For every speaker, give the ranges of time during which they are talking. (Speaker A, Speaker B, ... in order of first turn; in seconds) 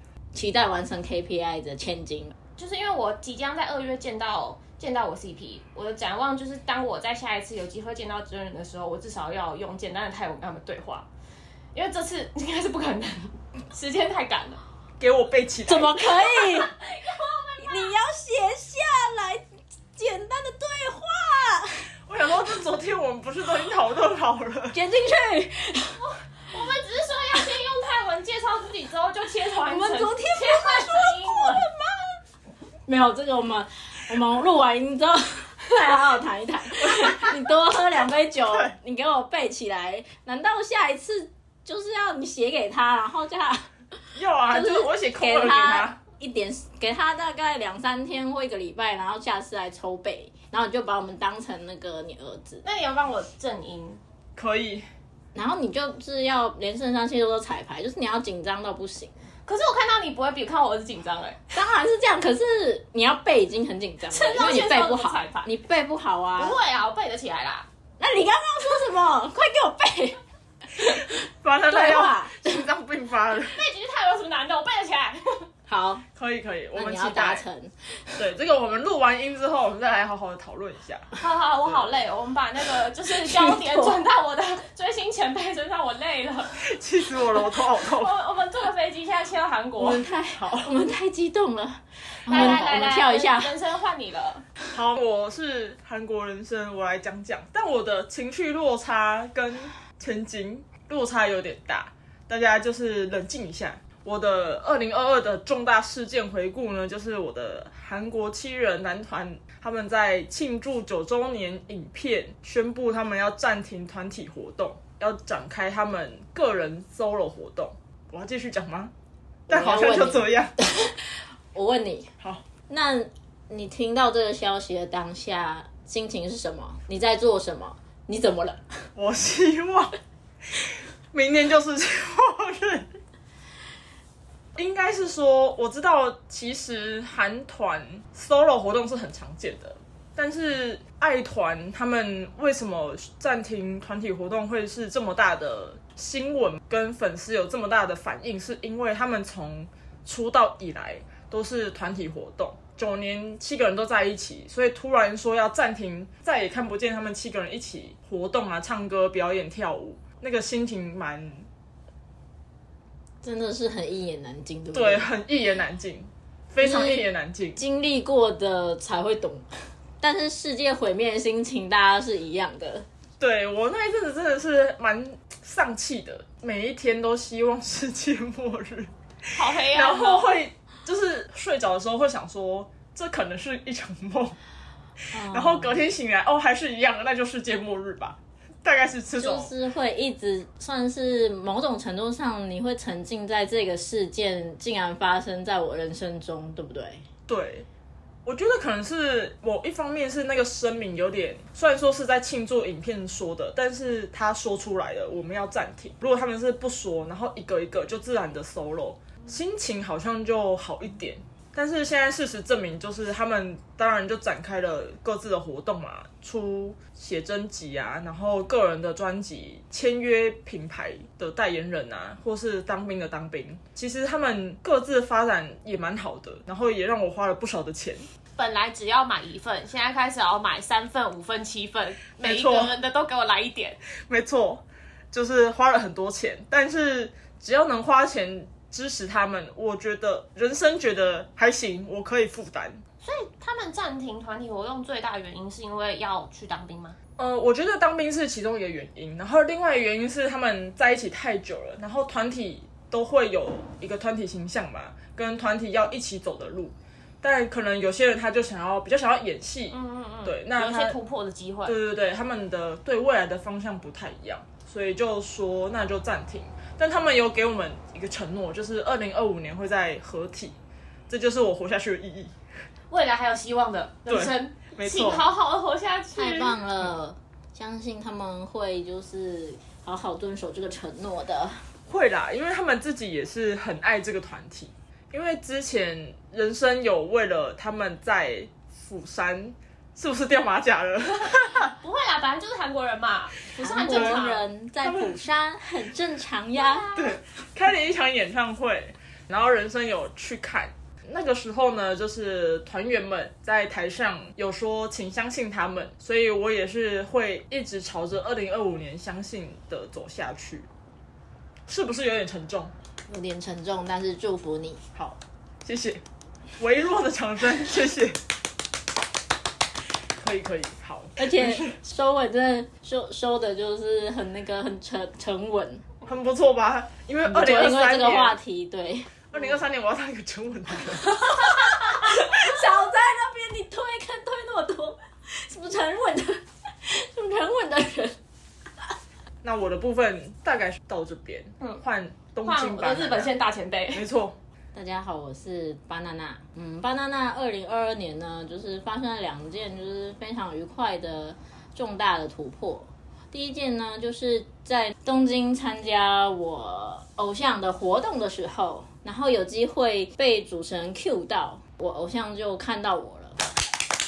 Speaker A: 0.3-2.4, 15.7-16.7, 17.6-21.9, 24.7-26.0, 29.6-32.1, 32.9-43.7, 44.5-52.6, 55.4-59.2, 61.5-66.6, 68.0-70.2, 70.7-72.7, 75.7-76.0, 76.7-78.2, 83.1-84.0, 89.8-93.5, 119.5-122.1, 122.7-128.8, 163.2-165.1, 166.6-169.5, 170.0-172.8, 185.1-185.8, 189.2-197.0, 276.2-281.6, 293.6-296.9, 313.1-314.8, 321.2-325.9, 327.2-329.3, 331.1-338.2, 344.7-363.4
Speaker B: 2.6-11.1, 11.8-14.6, 16.3-17.9, 26.0-31.7, 52.6-54.0, 59.5-61.5, 64.1-65.5, 66.4-67.7, 73.5-75.5, 81.2-86.6, 87.7-90.0, 92.3-94.5, 179.3-180.3, 228.4-233.8, 243.0-247.0, 259.7-261.8, 272.9-276.6, 291.2-294.4, 296.6-297.2, 342.4-344.0
Speaker C: 15.0-16.0, 22.1-24.8, 36.9-37.3, 38.5-38.7, 44.1-46.0, 54.4-54.9, 70.8-73.6, 76.2-77.5, 78.2-81.2, 86.6-88.1, 90.3-90.7, 94.7-118.9, 119.5-120.5, 129.0-130.0, 130.6-132.9, 134.6-161.5, 164.7-167.6, 173.2-184.4, 185.1-189.5, 197.3-197.7, 198.3-228.1, 232.2-232.8, 234.0-242.8, 247.2-261.0, 261.7-270.6, 271.1-272.3, 274.1-275.2, 281.9-291.7, 293.9-294.2, 294.8-295.2, 296.9-310.7, 311.7-312.7, 315.0-316.0, 316.6-318.2, 320.2-321.8, 326.1-328.4, 329.3-331.3, 339.4-343.3, 343.9-344.4